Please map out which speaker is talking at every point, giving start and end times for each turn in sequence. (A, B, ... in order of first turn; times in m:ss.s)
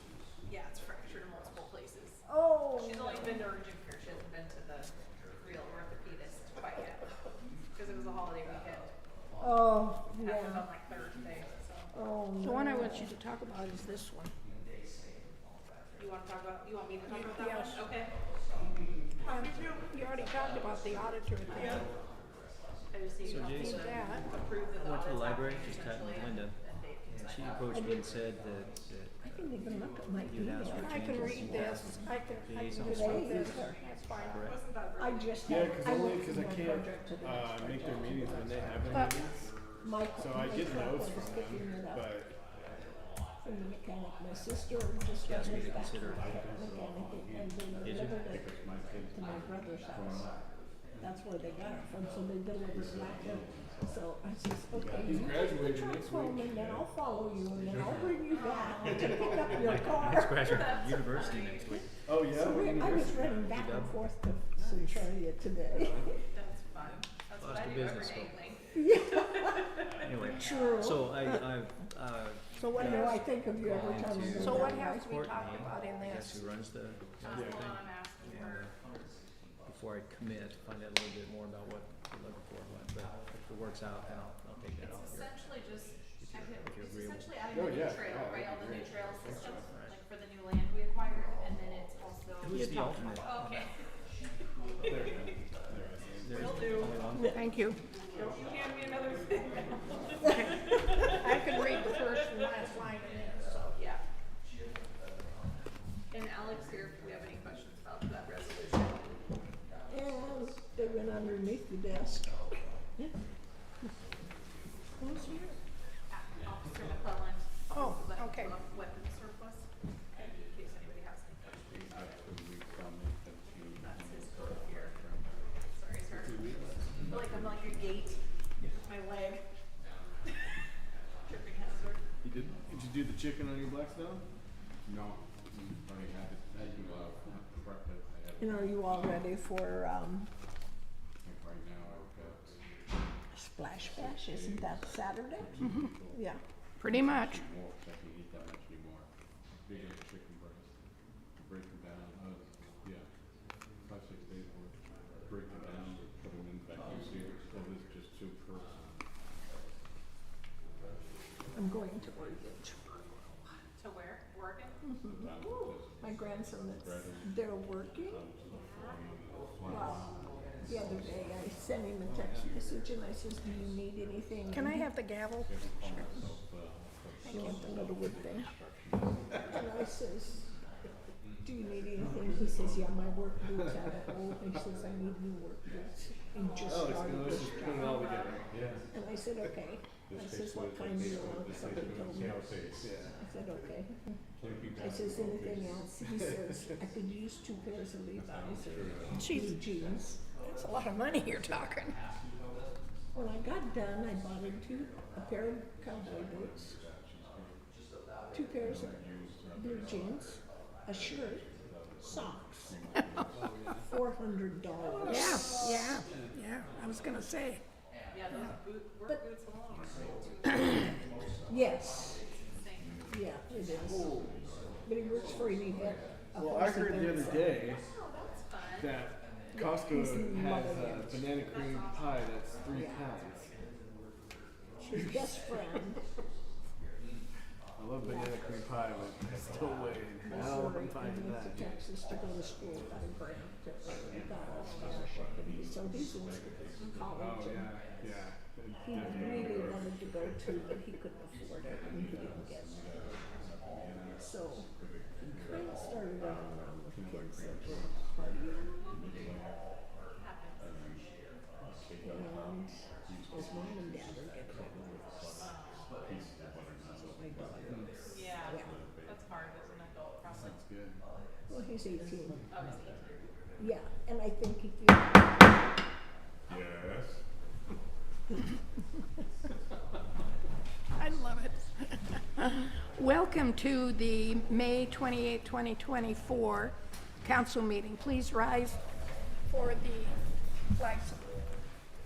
0:00.4-0:07.1 A
0:02.2-0:03.4 B
0:07.7-0:08.9 A
0:09.4-0:10.7 B
0:10.1-0:11.9 A
0:11.9-0:13.1 B
0:12.4-0:14.3 C
0:16.0-0:18.1 A
0:17.1-0:17.8 C
0:19.2-0:21.9 C
0:19.2-0:19.8 A
0:21.5-0:21.9 A
0:22.9-0:27.4 A
0:23.2-0:24.0 D
0:23.5-0:24.3 C
0:24.8-0:26.6 D
0:27.2-0:29.5 D
0:27.7-0:28.1 B
0:29.2-0:31.7 B
0:30.2-0:34.6 D
0:30.7-0:34.5 C
0:32.8-0:33.8 B
0:34.4-0:35.4 A
0:35.0-0:39.1 B
0:35.4-0:39.5 E
0:38.9-0:39.2 C
0:39.8-0:42.1 B
0:40.1-0:42.3 E
0:43.4-0:50.3 B
0:45.2-0:46.3 D
0:46.1-0:50.3 F
0:47.8-0:48.4 D
0:51.0-1:00.7 B
0:52.7-0:54.0 F
0:54.7-0:55.2 F
0:55.0-0:56.6 E
0:56.5-0:56.8 F
0:58.3-0:59.0 A
0:59.6-1:01.8 D
1:00.4-1:01.8 A
1:02.0-1:03.4 E
1:02.3-1:06.1 B
1:02.8-1:04.0 D
1:05.8-1:06.0 E
1:06.3-1:10.4 A
1:07.4-1:08.4 D
1:08.7-1:09.7 B
1:10.0-1:18.7 D
1:10.3-1:11.1 B
1:12.6-1:13.3 C
1:12.8-1:15.1 B
1:14.2-1:16.6 C
1:17.2-1:18.7 A
1:19.6-1:25.3 D
1:24.8-1:33.7 A
1:26.2-1:27.3 D
1:27.5-1:29.7 E
1:32.4-1:33.6 D
1:32.5-1:33.2 C
1:34.8-1:35.3 A
1:34.8-1:36.9 E
1:36.2-1:37.5 D
1:36.3-1:37.1 A
1:37.1-1:37.8 C
1:38.1-1:42.0 A
1:41.0-1:43.8 C
1:43.7-1:44.0 A
1:46.1-1:49.2 A
1:49.9-1:53.1 B
1:55.0-1:55.5 C
1:56.1-2:02.1 A
1:57.7-1:58.5 C
2:01.7-2:05.4 F
2:03.7-2:05.0 A
2:05.7-2:08.2 A
2:06.1-2:06.8 E
2:06.8-2:08.2 F
2:08.8-2:09.5 A
2:11.2-2:12.0 A
2:12.3-2:14.2 E
2:14.8-2:19.2 F
2:18.4-2:20.3 B
2:21.2-2:22.6 F
2:23.3-2:25.5 B
2:23.8-2:26.2 F
2:25.6-2:25.9 C
2:26.1-2:26.4 B
2:26.8-2:27.4 C
2:26.8-2:29.1 F
2:29.6-2:30.7 F
2:31.4-2:33.0 F
2:33.8-2:39.0 F
2:41.5-2:43.6 B
2:43.8-2:44.8 A
2:44.8-2:48.2 B
2:45.1-2:47.3 F
2:48.1-2:51.2 F
2:48.5-2:49.0 A
2:49.6-2:50.1 B
2:50.6-2:54.9 B
2:52.0-2:52.5 E
2:54.5-2:56.2 C
2:55.4-2:59.3 F
2:57.2-2:58.5 C
2:57.2-2:58.5 B
2:59.5-3:00.5 B
3:01.4-3:08.3 B
3:02.5-3:02.8 F
3:06.4-3:08.5 A
3:06.6-3:08.5 E
3:08.5-3:08.8 F
3:08.9-3:12.6 B
3:10.1-3:12.9 F
3:12.8-3:13.2 E
3:13.1-3:14.0 B
3:14.4-3:15.9 F
3:14.8-3:20.2 B
3:18.2-3:19.3 F
3:19.1-3:19.6 C
3:20.3-3:22.0 C
3:23.1-3:26.8 B
3:25.9-3:27.6 F
3:28.3-3:29.0 B
3:28.6-3:30.4 F
3:29.5-3:31.4 B
3:30.9-3:33.7 F
3:32.0-3:32.8 B
3:32.9-3:33.2 C
3:33.3-3:34.0 E
3:33.8-3:35.7 B
3:34.8-3:36.0 A
3:35.0-3:37.6 C
3:38.1-3:41.4 A
3:41.5-3:42.2 B
3:42.5-3:43.0 A
3:42.8-3:43.2 F
3:43.1-3:44.2 B
3:44.2-3:44.8 F
3:44.8-3:47.7 B
3:45.6-3:46.0 F
3:46.3-3:47.8 E
3:47.5-3:49.0 A
3:48.7-3:53.5 E
3:49.5-3:51.2 B
3:51.4-3:53.6 A
3:52.6-3:53.0 B
3:54.9-3:56.0 B
3:57.8-4:01.8 E
3:58.0-3:58.5 B
4:00.2-4:07.8 B
4:04.5-4:05.1 A
4:06.8-4:07.0 A
4:07.2-4:10.7 F
4:07.2-4:08.4 E
4:08.8-4:12.8 B
4:11.8-4:18.1 F
4:14.2-4:14.7 B
4:15.3-4:19.0 B
4:18.9-4:19.6 F
4:20.1-4:20.7 A
4:20.6-4:21.0 F
4:21.6-4:27.9 F
4:22.0-4:25.5 B
4:25.4-4:25.9 A
4:26.9-4:27.9 B
4:28.1-4:30.6 A
4:28.4-4:28.8 B
4:28.6-4:29.2 F
4:30.3-4:31.0 F
4:31.5-4:32.4 B
4:32.5-4:33.2 A
4:33.6-4:35.5 B
4:36.5-4:37.2 F
4:41.0-4:48.8 C
4:49.5-4:50.1 C
4:50.7-4:51.1 C